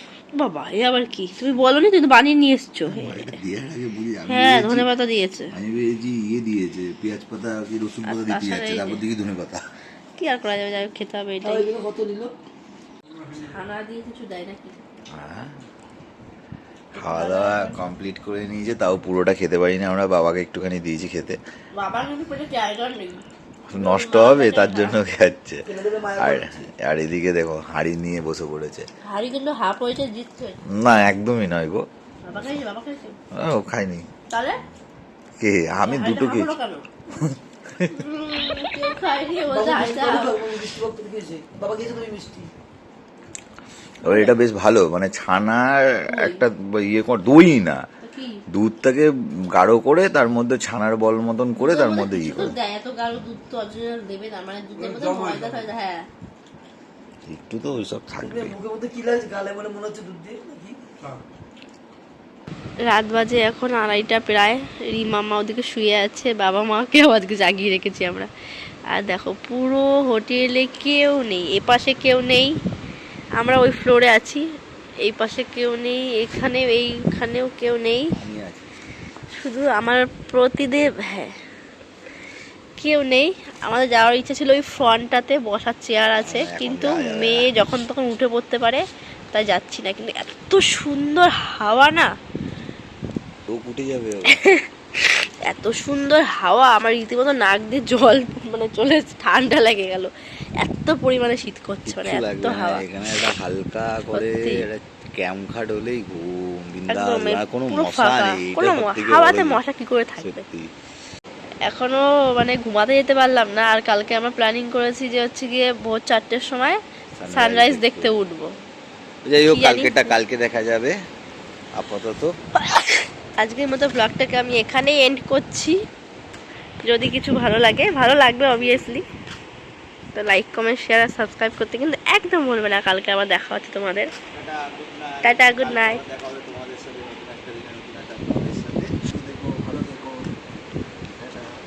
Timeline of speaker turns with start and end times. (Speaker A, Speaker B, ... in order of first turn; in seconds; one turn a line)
Speaker A: 0.3-3.3
Speaker B: 2.9-4.9
Speaker A: 4.3-5.5
Speaker B: 5.5-9.6
Speaker A: 8.1-9.0
Speaker A: 10.2-11.7
Speaker C: 11.4-12.3
Speaker A: 13.3-14.8
Speaker B: 15.1-15.5
Speaker A: 16.9-17.8
Speaker B: 16.9-21.4
Speaker A: 21.8-23.2
Speaker B: 23.7-25.6
Speaker A: 23.8-25.0
Speaker C: 25.6-26.6
Speaker B: 26.1-28.9
Speaker A: 29.0-30.6
Speaker B: 30.7-31.8
Speaker A: 32.2-33.1
Speaker B: 33.3-34.0
Speaker A: 34.3-34.6
Speaker B: 35.4-36.5
Speaker A: 35.8-36.9
Speaker B: 37.2-37.9
Speaker A: 37.9-40.5
Speaker C: 39.5-42.5
Speaker B: 44.0-47.8
Speaker A: 44.0-44.3
Speaker A: 46.1-46.4
Speaker A: 48.0-48.4
Speaker B: 48.5-52.5
Speaker A: 51.6-56.0
Speaker C: 54.8-55.6
Speaker B: 57.2-58.5
Speaker C: 58.2-60.8
Speaker A: 62.9-68.3
Speaker A: 68.9-72.5
Speaker A: 73.4-74.4
Speaker A: 75.0-78.1
Speaker B: 78.2-78.6
Speaker A: 79.4-81.3
Speaker A: 82.8-92.1
Speaker B: 86.2-87.5
Speaker B: 93.5-94.4
Speaker A: 94.3-100.1
Speaker A: 100.6-102.8
Speaker B: 101.8-109.6
Speaker A: 104.1-104.6
Speaker A: 106.9-110.4
Speaker B: 110.2-110.7
Speaker A: 111.7-118.5
Speaker B: 117.2-118.1
Speaker B: 119.2-120.9
Speaker A: 119.5-120.2
Speaker B: 121.8-122.3
Speaker A: 122.6-125.8
Speaker A: 126.8-129.0
Speaker A: 130.1-134.1
Speaker B: 134.3-140.2
Speaker A: 135.2-136.0
Speaker C: 139.3-140.1